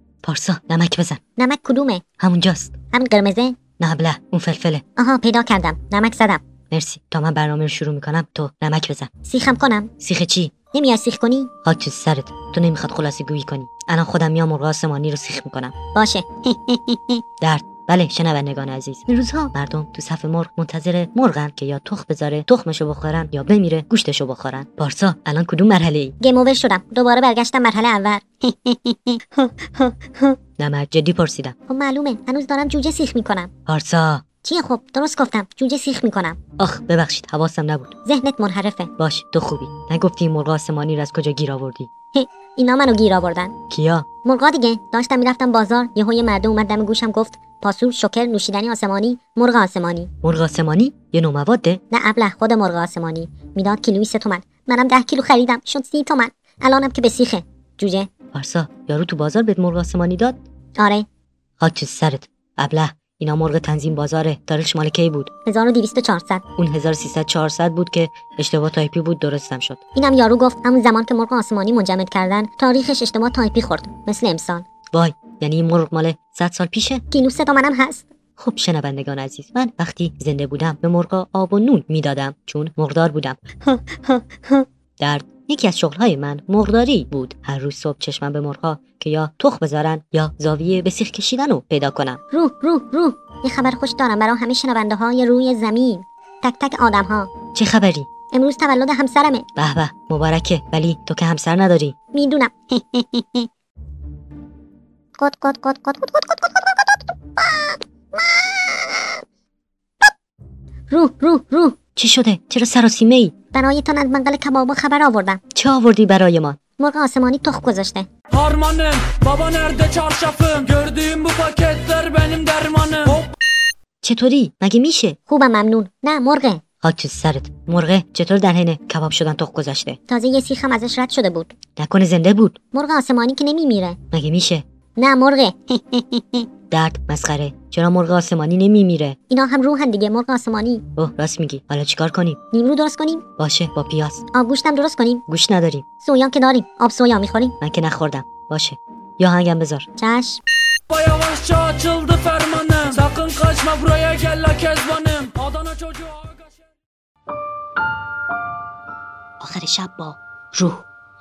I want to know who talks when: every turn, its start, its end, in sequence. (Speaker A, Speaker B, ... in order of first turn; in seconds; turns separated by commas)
Speaker A: 0.2-1.2, Speaker B: 1.4-2.0, Speaker A: 2.2-2.7, Speaker B: 2.9-3.6, Speaker A: 3.8-4.8, Speaker B: 5.0-6.4, Speaker A: 6.7-9.1, Speaker B: 9.2-9.9, Speaker A: 10.0-10.5, Speaker B: 10.7-11.5, Speaker A: 11.6-15.7, Speaker B: 15.9-16.8, Speaker A: 17.4-26.1, Speaker B: 26.2-29.2, Speaker A: 30.6-31.5, Speaker B: 31.7-33.5, Speaker A: 33.7-34.2, Speaker B: 34.4-36.4, Speaker A: 36.6-38.0, Speaker B: 38.0-38.9, Speaker A: 39.0-41.9, Speaker B: 42.1-43.5, Speaker A: 43.7-44.1, Speaker B: 44.2-50.1, Speaker A: 50.2-51.8, Speaker B: 51.9-58.1, Speaker A: 58.3-60.4, Speaker B: 60.8-61.0, Speaker A: 61.6-65.3, Speaker B: 65.5-66.4, Speaker A: 66.6-69.8, Speaker B: 69.9-74.7, Speaker A: 74.9-77.0, Speaker B: 77.1-78.1, Speaker A: 78.4-83.4, Speaker B: 83.7-84.6, Speaker A: 85.0-92.2, Speaker B: 92.3-97.3, Speaker A: 97.5-98.1, Speaker B: 98.3-99.5, Speaker A: 99.6-102.0, Speaker B: 102.1-103.5, Speaker B: 105.2-109.2, Speaker B: 110.9-111.8, Speaker A: 112.0-113.3, Speaker B: 113.5-115.4, Speaker A: 115.5-116.6, Speaker B: 116.8-118.1, Speaker C: 118.3-123.2, Speaker A: 124.0-125.2, Speaker B: 125.3-126.6, Speaker A: 126.8-130.0, Speaker B: 130.1-131.6, Speaker A: 131.8-132.6, Speaker B: 132.7-134.0, Speaker A: 134.1-134.6, Speaker B: 135.0-136.4, Speaker A: 136.7-139.2, Speaker B: 139.3-140.8, Speaker A: 141.0-142.4, Speaker B: 142.5-143.2, Speaker A: 143.4-144.2, Speaker B: 144.3-145.2, Speaker A: 145.3-145.8, Speaker B: 146.0-147.6, Speaker A: 147.6-149.9, Speaker B: 150.0-150.4, Speaker C: 150.9-156.5, Speaker A: 159.4-160.8